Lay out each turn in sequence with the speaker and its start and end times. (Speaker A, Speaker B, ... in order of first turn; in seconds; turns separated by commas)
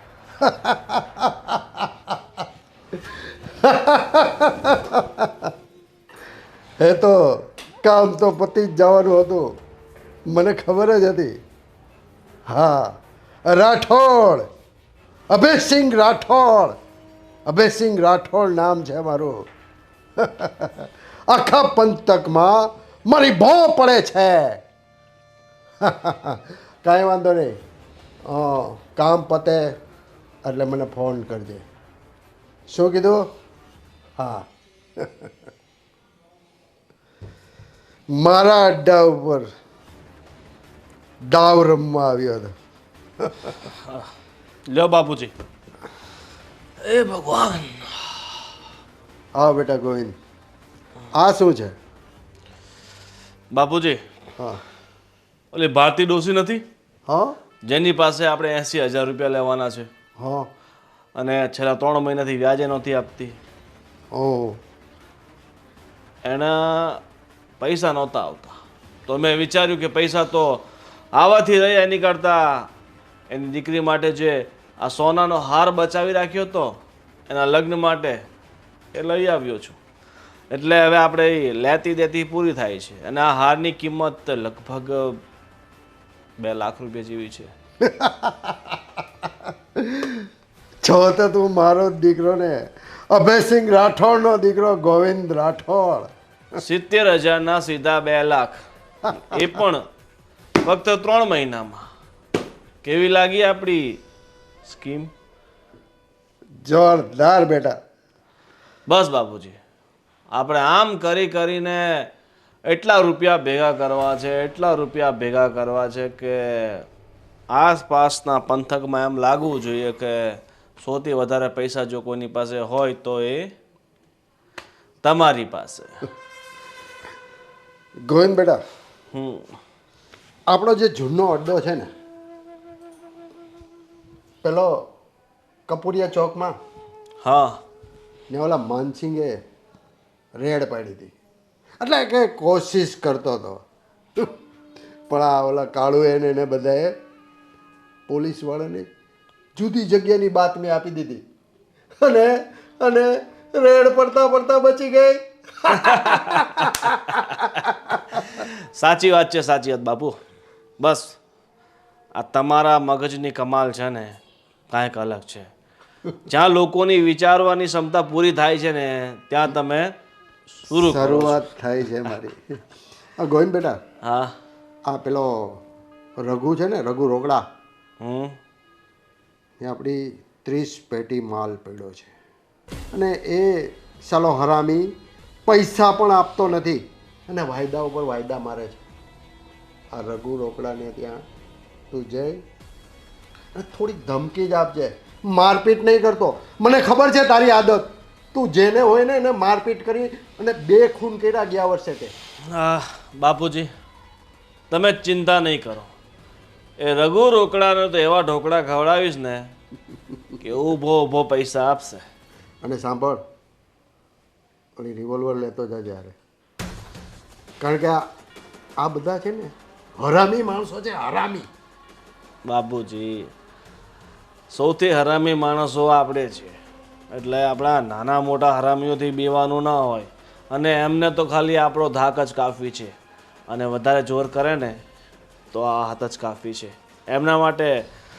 Speaker A: 0.4-2.2, Speaker A: 3.6-5.5, Speaker A: 6.8-7.2, Speaker A: 7.8-9.4, Speaker A: 10.3-11.3, Speaker A: 12.5-14.5, Speaker A: 15.3-16.8, Speaker A: 17.5-19.4, Speaker A: 20.2-24.6, Speaker A: 25.8-27.6, Speaker A: 28.2-29.7, Speaker A: 30.4-31.6, Speaker A: 32.7-33.2, Speaker A: 34.2-34.5, Speaker A: 35.0-35.3, Speaker A: 38.1-39.5, Speaker A: 41.2-42.5, Speaker A: 43.2-43.5, Speaker B: 43.7-44.1, Speaker B: 44.7-45.3, Speaker B: 46.8-48.2, Speaker A: 49.4-50.1, Speaker A: 51.1-51.7, Speaker B: 53.5-54.0, Speaker A: 54.4-54.6, Speaker B: 55.5-56.6, Speaker A: 57.1-57.3, Speaker B: 57.6-59.9, Speaker A: 60.2-60.5, Speaker B: 61.1-63.4, Speaker A: 64.1-64.6, Speaker B: 66.2-67.0, Speaker B: 67.6-68.5, Speaker B: 69.1-72.7, Speaker B: 73.3-78.2, Speaker B: 78.9-79.8, Speaker B: 80.5-85.2, Speaker B: 86.4-87.5, Speaker A: 87.8-90.2, Speaker A: 90.8-96.1, Speaker B: 96.6-98.6, Speaker B: 99.1-99.8, Speaker B: 100.6-101.8, Speaker B: 102.8-104.0, Speaker B: 104.6-105.1, Speaker A: 106.6-107.8, Speaker B: 108.9-109.6, Speaker B: 110.3-112.1, Speaker B: 112.7-116.8, Speaker B: 117.5-123.5, Speaker B: 125.0-126.0, Speaker A: 128.1-128.6, Speaker B: 129.1-129.5, Speaker A: 130.5-131.9, Speaker A: 134.4-134.7, Speaker A: 135.7-136.5, Speaker B: 137.2-137.6, Speaker A: 138.3-139.4, Speaker A: 140.3-141.1, Speaker A: 141.8-143.6, Speaker A: 145.1-146.9, Speaker A: 148.1-148.8, Speaker A: 149.6-151.2, Speaker A: 152.0-158.2, Speaker B: 155.9-156.9, Speaker B: 158.2-160.2, Speaker B: 160.8-161.2, Speaker B: 162.2-164.2, Speaker B: 164.7-165.5, Speaker B: 166.2-169.9, Speaker B: 170.6-171.5, Speaker A: 170.7-172.6, Speaker A: 173.2-173.8, Speaker B: 174.0-174.3, Speaker A: 174.8-175.6, Speaker A: 176.2-177.4, Speaker B: 178.0-178.4, Speaker A: 179.6-182.1, Speaker A: 182.9-184.9, Speaker A: 185.4-188.8, Speaker A: 189.9-191.2, Speaker A: 191.9-192.4, Speaker A: 193.6-202.1, Speaker B: 202.5-203.7, Speaker B: 204.7-205.9, Speaker B: 206.8-209.5, Speaker B: 210.4-212.0, Speaker A: 212.6-213.2, Speaker A: 214.8-216.2, Speaker A: 217.6-218.0, Speaker A: 218.8-221.5, Speaker B: 222.4-223.3, Speaker B: 224.5-226.6, Speaker B: 227.1-232.9, Speaker B: 233.5-234.8, Speaker B: 235.5-237.8